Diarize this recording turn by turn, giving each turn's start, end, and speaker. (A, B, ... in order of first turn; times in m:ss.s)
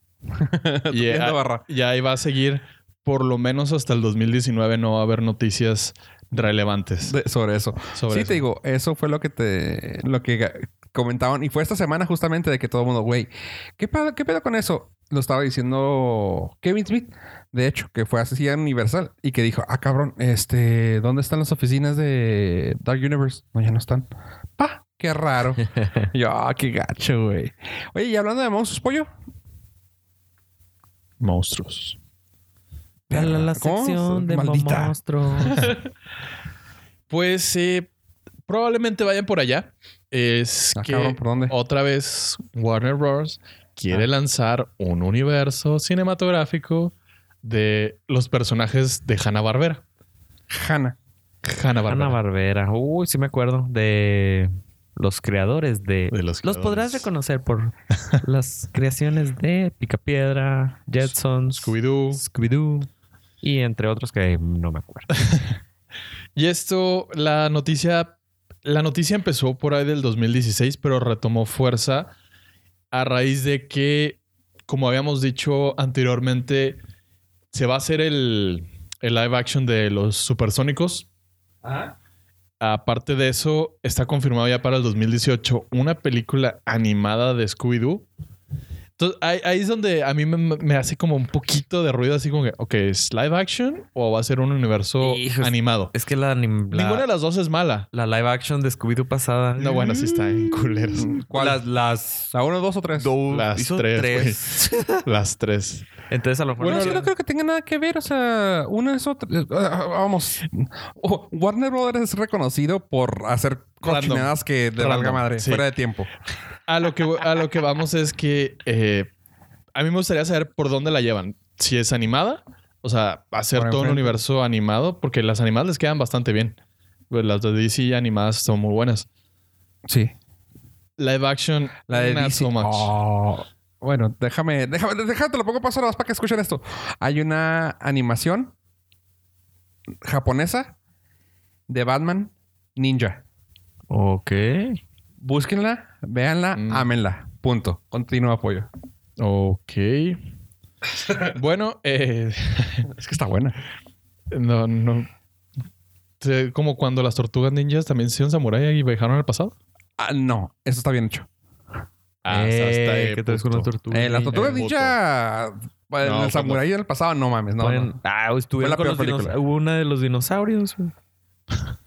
0:00.4-0:01.6 A
0:00.9-0:07.2 B
0:07.1-0:29.1 A
0:07.9-0:08.4 B
0:31.2-0:32.0 B
0:33.1-0:35.8 A
0:33.1-0:35.6 C
0:37.1-0:37.9 B
0:38.5-0:49.8 B
0:40.8-0:41.6 A
0:50.5-0:51.0 A
0:51.4-0:52.2 B
0:51.9-1:02.9 C
0:56.1-0:57.1 B
1:01.5-1:02.2 B
1:03.4-1:05.1 C
1:06.4-1:12.1 B
1:12.9-1:16.8 B
1:17.5-1:21.1 B
1:21.6-1:21.9 A
1:22.6-1:28.0 B
1:29.0-1:35.9 B
1:35.0-1:37.1 C
1:36.7-1:37.9 B
1:37.9-1:42.3 C
1:39.6-1:41.1 B
1:41.0-1:41.6 A
1:42.3-1:43.1 A
1:42.9-1:45.0 C
1:43.3-1:44.5 B
1:45.0-1:45.9 B
1:46.1-1:47.0 C
1:46.6-1:47.0 B
1:46.6-1:56.1 A
1:53.8-1:55.6 B
1:56.7-1:59.1 B
1:59.7-2:06.6 B
2:03.5-2:04.2 A
2:07.1-2:09.1 B
2:09.9-2:10.1 A
2:11.0-2:12.9 B
2:11.9-2:18.5 A
2:20.0-2:20.7 A
2:21.7-2:23.2 A
2:23.9-2:24.8 C
2:25.2-2:28.7 A
2:26.6-2:26.9 B
2:29.2-2:30.2 B
2:31.2-2:32.9 B
2:32.9-2:33.6 A
2:34.3-2:35.1 B
2:36.2-2:39.6 B
2:40.0-2:41.3 A
2:42.2-2:43.7 B
2:42.3-2:44.6 C
2:43.9-2:48.0 A
2:44.3-2:45.0 B
2:46.0-2:46.6 B
2:47.6-2:50.9 C
2:48.6-2:49.3 A